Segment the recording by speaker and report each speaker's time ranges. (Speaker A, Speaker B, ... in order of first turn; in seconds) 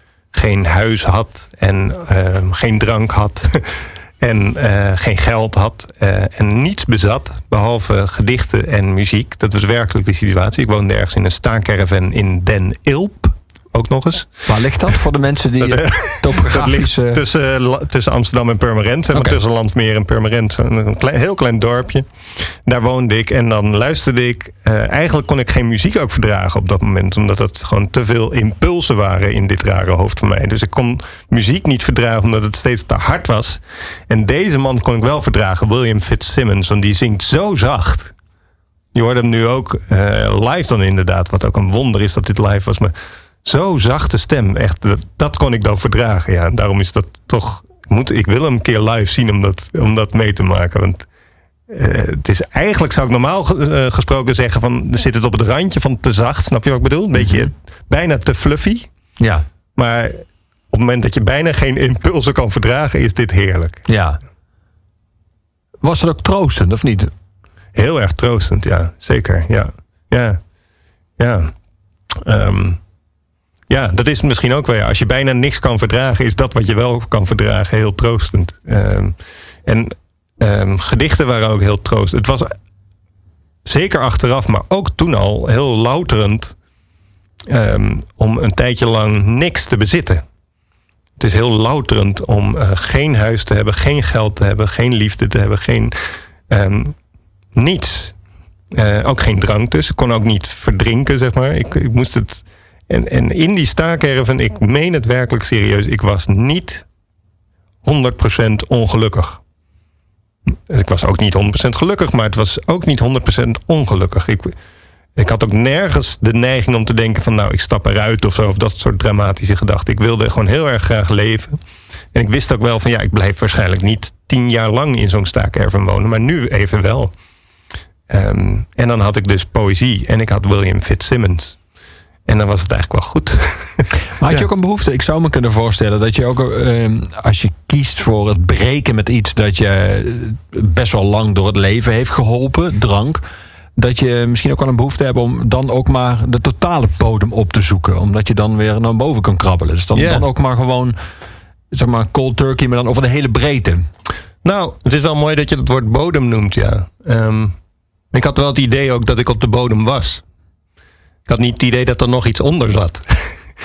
Speaker A: 0.3-14.5, 15.6-38.1, 38.9-51.1, 51.7-58.9, 59.8-63.9, 67.7-70.4, 71.2-71.5, 72.2-72.8, 73.7-82.5, 83.6-86.5, 87.5-90.2, 91.2-95.9, 96.5-97.0, 97.5-98.2, 98.7-106.9, 107.8-109.4, 110.5-114.5, 115.2-121.6, 122.1-127.1, 128.1-131.6, 132.2-134.4, 149.9-150.2, 154.4-157.6, 158.1-160.2, 161.3-163.3
Speaker B: 14.5-17.2, 19.1-19.4, 57.2-57.5, 63.9-64.2, 65.8-67.1, 134.2-143.2, 143.8-150.9, 151.7-153.8